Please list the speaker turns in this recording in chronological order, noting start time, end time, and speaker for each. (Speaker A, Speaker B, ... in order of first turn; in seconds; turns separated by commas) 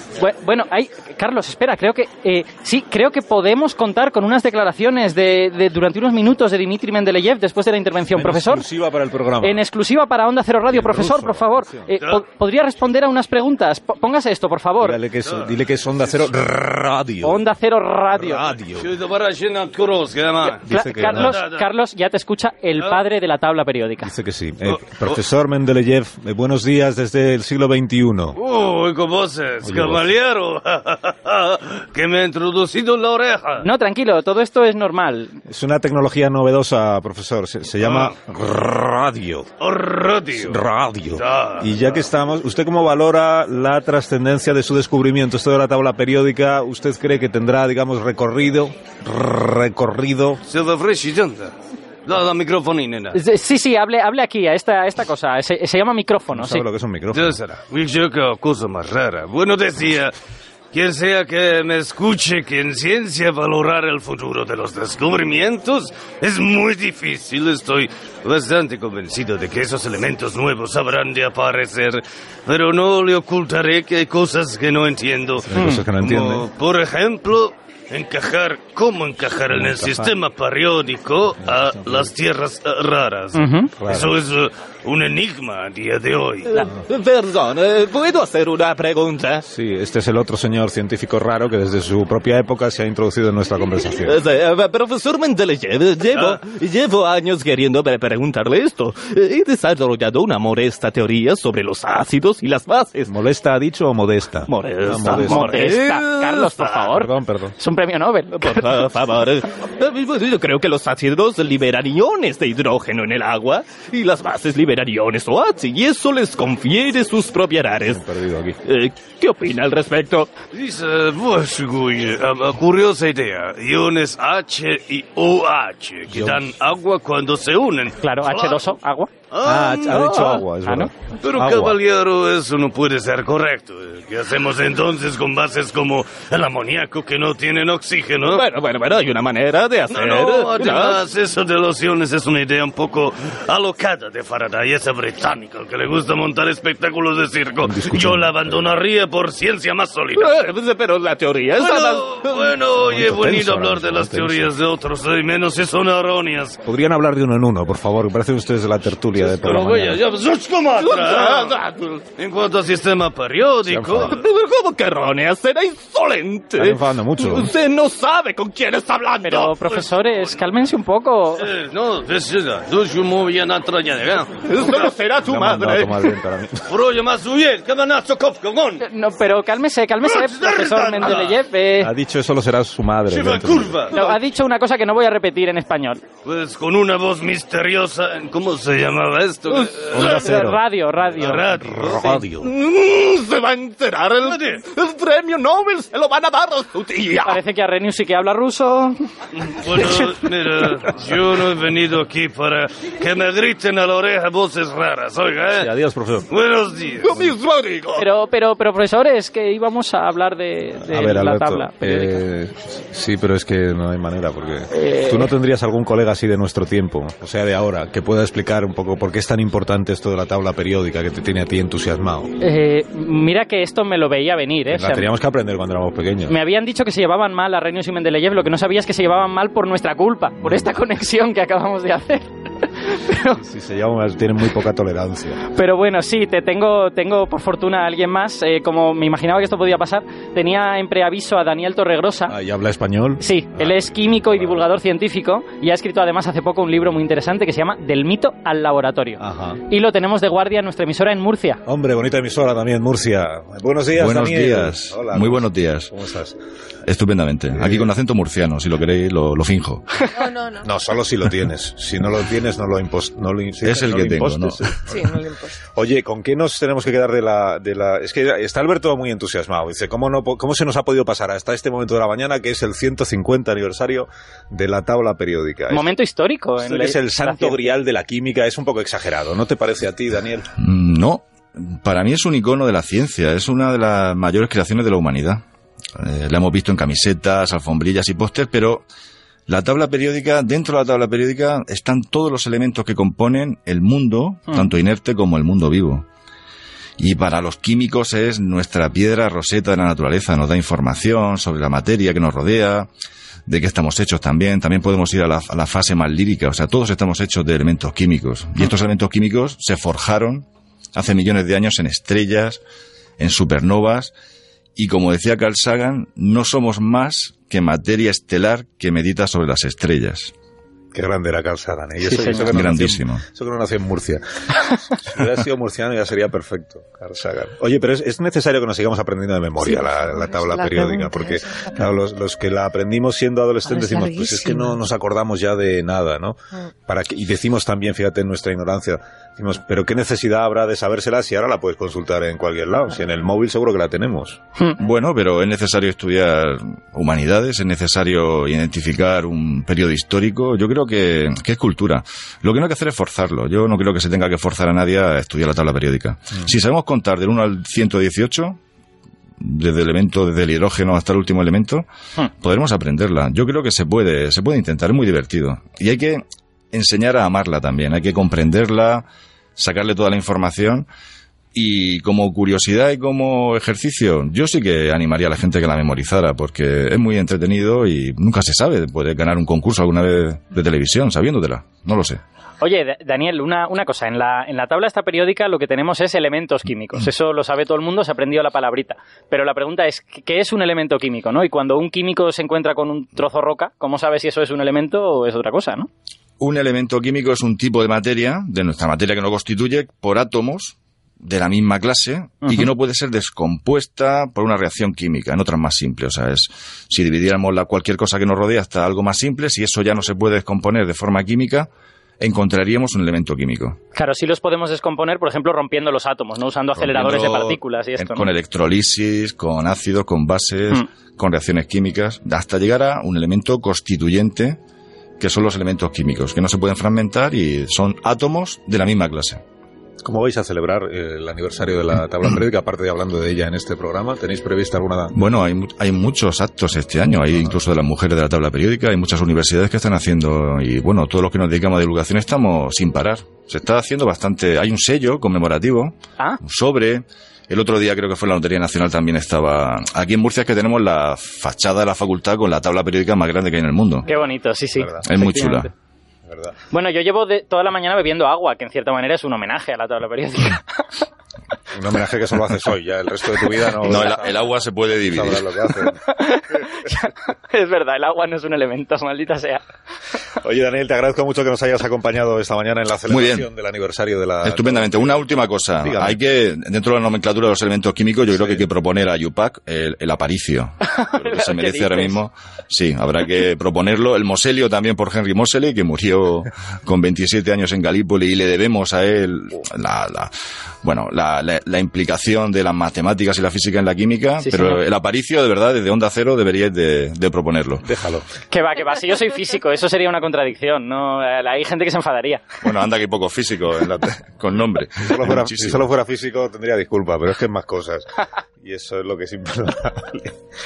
Speaker A: 0.2-8.7, Speaker B: 8.1-9.6, Speaker A: 9.4-15.0, Speaker B: 10.7-11.9, Speaker B: 14.8-17.4, Speaker C: 15.2-15.5, Speaker A: 17.2-18.5, Speaker B: 18.1-18.9, Speaker C: 18.8-21.6, Speaker B: 20.6-21.4, Speaker A: 20.6-24.1, Speaker B: 24.0-28.4, Speaker C: 28.4-33.6, Speaker B: 29.6-30.1, Speaker A: 33.6-35.4, Speaker B: 35.5-39.5, Speaker C: 37.8-38.1, Speaker C: 39.6-40.6, Speaker B: 40.4-50.4, Speaker C: 41.1-42.0, Speaker C: 50.5-51.5, Speaker C: 52.0-53.2, Speaker A: 53.1-56.6, Speaker B: 56.3-57.4, Speaker C: 57.1-60.1, Speaker C: 60.7-86.7, Speaker B: 75.4-76.5, Speaker A: 75.5-75.8, Speaker B: 79.5-80.1, Speaker B: 81.7-82.1, Speaker A: 83.3-83.7, Speaker B: 83.7-84.1, Speaker D: 86.5-89.4, Speaker B: 89.5-94.2, Speaker D: 94.0-103.1, Speaker C: 96.1-96.4, Speaker B: 103.1-105.6, Speaker D: 104.5-106.6, Speaker A: 105.1-108.8, Speaker B: 106.9-107.5, Speaker D: 108.3-118.0, Speaker B: 117.8-118.6, Speaker D: 118.6-120.3, Speaker C: 120.5-128.7, Speaker B: 126.1-126.5, Speaker A: 128.0-129.1, Speaker C: 129.3-130.1, Speaker B: 129.4-131.8, Speaker A: 129.9-130.9, Speaker C: 131.2-138.5, Speaker D: 138.2-141.0, Speaker C: 139.9-150.3, Speaker B: 147.6-148.7, Speaker D: 150.1-152.6, Speaker C: 151.5-156.6, Speaker B: 152.9-154.5, Speaker B: 156.6-160.0, Speaker C: 159.2-161.6, Speaker D: 160.8-162.0, Speaker C: 162.2-164.2, Speaker B: 163.7-164.1, Speaker D: 164.0-169.5, Speaker B: 166.6-167.5, Speaker A: 169.2-171.5, Speaker C: 169.7-170.3, Speaker C: 171.3-174.7, Speaker D: 174.4-176.1, Speaker B: 175.2-176.7, Speaker C: 176.7-178.8, Speaker A: 178.8-181.9, Speaker C: 180.0-181.4, Speaker B: 181.8-183.8, Speaker C: 183.1-184.1, Speaker A: 183.9-186.0, Speaker C: 186.2-190.3, Speaker B: 189.9-190.6, Speaker A: 189.9-192.0, Speaker C: 191.1-192.1, Speaker B: 191.5-192.5, Speaker D: 192.4-197.4, Speaker C: 194.2-194.6, Speaker A: 197.2-199.0, Speaker C: 199.4-205.7, Speaker B: 205.5-206.3, Speaker C: 206.3-207.2, Speaker D: 207.0-208.0, Speaker A: 207.9-212.2, Speaker B: 210.8-222.3, Speaker A: 214.7-215.3, Speaker A: 222.4-225.1, Speaker B: 224.7-226.3, Speaker A: 226.3-232.3, Speaker B: 230.4-230.7, Speaker A: 232.8-233.4, Speaker B: 233.3-235.4, Speaker A: 235.5-242.3, Speaker B: 242.3-244.6, Speaker A: 243.2-251.6, Speaker B: 249.2-249.6, Speaker B: 251.7-256.4, Speaker E: 253.9-255.9, Speaker E: 256.9-260.0, Speaker B: 257.5-257.9, Speaker F: 260.1-260.6, Speaker B: 260.6-275.9, Speaker E: 263.6-264.8, Speaker F: 264.9-265.5, Speaker A: 275.7-277.7, Speaker B: 276.6-280.5, Speaker E: 280.6-285.4, Speaker E: 286.0-288.9, Speaker E: 289.5-296.1, Speaker E: 297.0-302.9, Speaker E: 303.5-312.6, Speaker E: 313.2-314.1, Speaker E: 314.8-320.3, Speaker B: 320.9-324.2, Speaker A: 322.0-322.5, Speaker E: 322.4-323.2, Speaker B: 324.9-344.4, Speaker F: 329.6-331.9, Speaker F: 333.7-334.8, Speaker E: 344.8-358.6, Speaker E: 359.4-361.9, Speaker E: 362.4-370.9, Speaker E: 371.5-382.2, Speaker A: 382.6-395.9, Speaker E: 396.4-411.7, Speaker E: 412.2-413.8, Speaker A: 413.9-418.3, Speaker E: 416.8-424.6, Speaker E: 425.2-429.4, Speaker B: 430.0-435.1, Speaker E: 435.1-454.1, Speaker A: 454.1-455.7, Speaker B: 454.8-455.1, Speaker E: 455.1-455.7, Speaker B: 456.3-456.5, Speaker A: 456.7-460.8, Speaker B: 461.7-464.4, Speaker A: 463.8-464.2, Speaker E: 463.8-465.4, Speaker B: 465.1-466.0, Speaker A: 466.0-469.6, Speaker B: 470.4-475.2, Speaker E: 473.1-473.5, Speaker E: 474.4-497.9, Speaker B: 475.8-476.2, Speaker B: 478.3-478.7, Speaker A: 480.8-482.2, Speaker A: 494.4-494.8, Speaker B: 497.8-498.2, Speaker A: 498.5-502.4, Speaker E: 502.6-505.8, Speaker B: 505.0-508.0, Speaker B: 508.6-510.3